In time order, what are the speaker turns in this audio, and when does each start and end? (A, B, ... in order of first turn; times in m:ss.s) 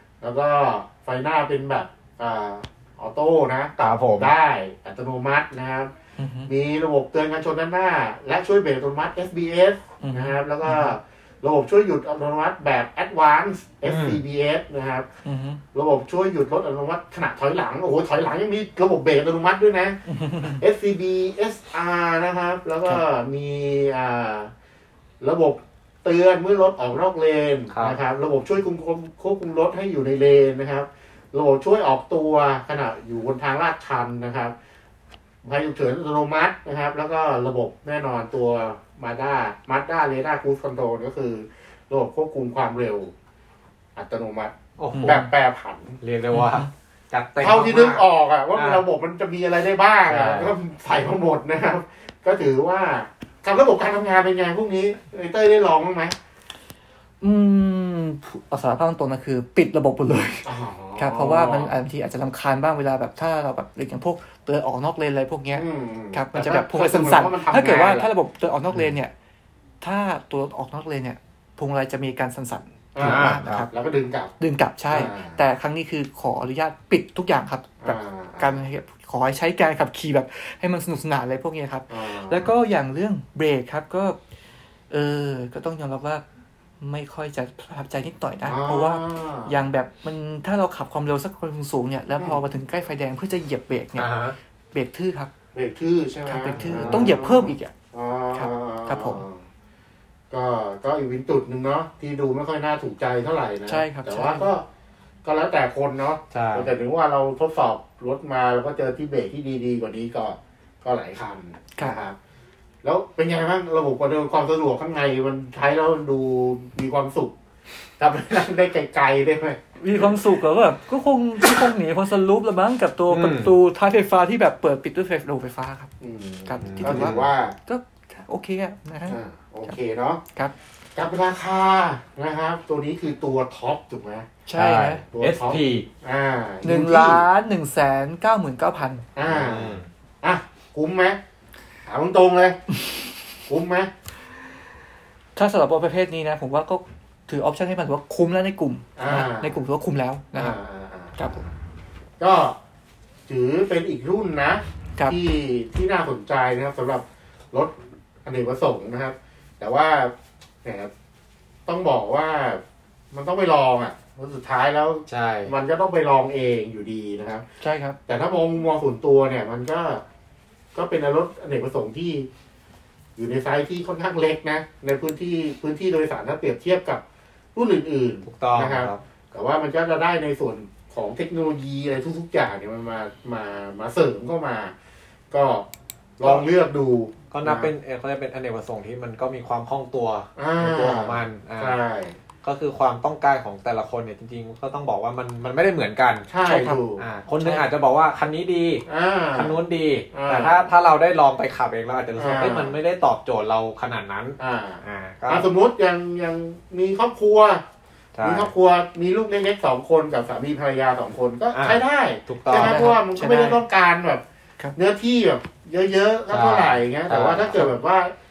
0:00.2-0:05.9 A
0:03.8-0:04.3 B
0:06.2-0:06.5 C
0:06.5-0:15.1 A
0:10.0-0:10.9 C
0:13.9-0:14.2 B
0:15.2-0:15.6 C
0:15.7-0:24.5 A
0:20.1-0:20.6 C
0:25.2-0:34.5 A
0:27.7-0:28.0 B
0:35.4-0:43.1 A
0:44.0-0:46.0 A
0:44.8-0:45.3 B
0:44.9-0:45.3 C
0:46.0-0:48.8 B
0:46.3-0:46.7 C
0:47.4-0:56.2 A
0:50.1-0:50.5 B
0:57.2-1:09.1 C
1:00.4-1:01.7 A
1:05.6-1:08.1 A
1:09.8-1:13.7 C
1:12.9-1:14.3 A
1:13.0-1:13.6 B
1:14.4-1:24.2 C
1:14.9-1:15.4 A
1:17.8-1:18.6 A
1:21.9-1:22.5 A
1:24.9-1:26.2 C
1:26.8-1:34.1 C
1:28.5-1:29.6 A
1:34.0-1:34.4 B
1:34.7-1:35.3 C
1:35.5-1:39.4 A
1:36.3-1:37.7 C
1:36.6-1:37.1 B
1:38.3-1:39.2 C
1:40.3-1:44.6 A
1:43.7-1:44.5 C
1:45.2-1:52.2 A
1:46.3-1:46.7 B
1:52.8-1:57.4 A
1:58.0-2:00.1 A
1:59.8-2:05.9 C
2:03.1-2:03.5 B
2:06.0-2:07.6 A
2:06.5-2:09.8 C
2:06.6-2:07.2 B
2:09.1-2:10.2 A
2:10.9-2:14.3 A
2:14.5-2:15.0 C
2:14.6-2:15.9 B
2:15.1-2:17.2 A
2:16.6-2:19.1 C
2:19.2-2:21.2 A
2:19.3-2:19.9 B
2:21.8-2:22.6 A
2:23.5-2:23.9 A
2:25.4-2:30.6 C
2:29.0-2:29.6 A
2:30.4-2:31.5 A
2:31.2-2:31.4 C
2:32.2-2:32.6 A
2:33.3-2:37.7 A
2:38.2-2:40.9 A
2:41.6-2:47.4 A
2:45.1-2:45.5 B
2:47.6-2:48.0 C
2:48.1-2:50.0 A
2:50.7-2:52.3 A
2:53.2-2:57.0 A
2:57.6-3:04.7 A
2:58.3-2:59.0 B
3:05.3-3:05.7 A
3:06.2-3:07.7 A
3:07.3-3:11.8 B
3:10.4-3:12.2 A
3:12.4-3:16.3 B
3:16.3-3:17.0 A
3:16.4-3:16.8 C
3:17.0-3:25.5 B
3:18.9-3:19.6 A
3:20.1-3:20.6 A
3:22.2-3:22.8 A
3:24.4-3:27.6 A
3:28.2-3:28.5 B
3:28.2-3:34.2 A
3:31.6-3:32.9 B
3:32.5-3:33.6 C
3:34.8-3:38.1 A
3:36.3-3:37.7 B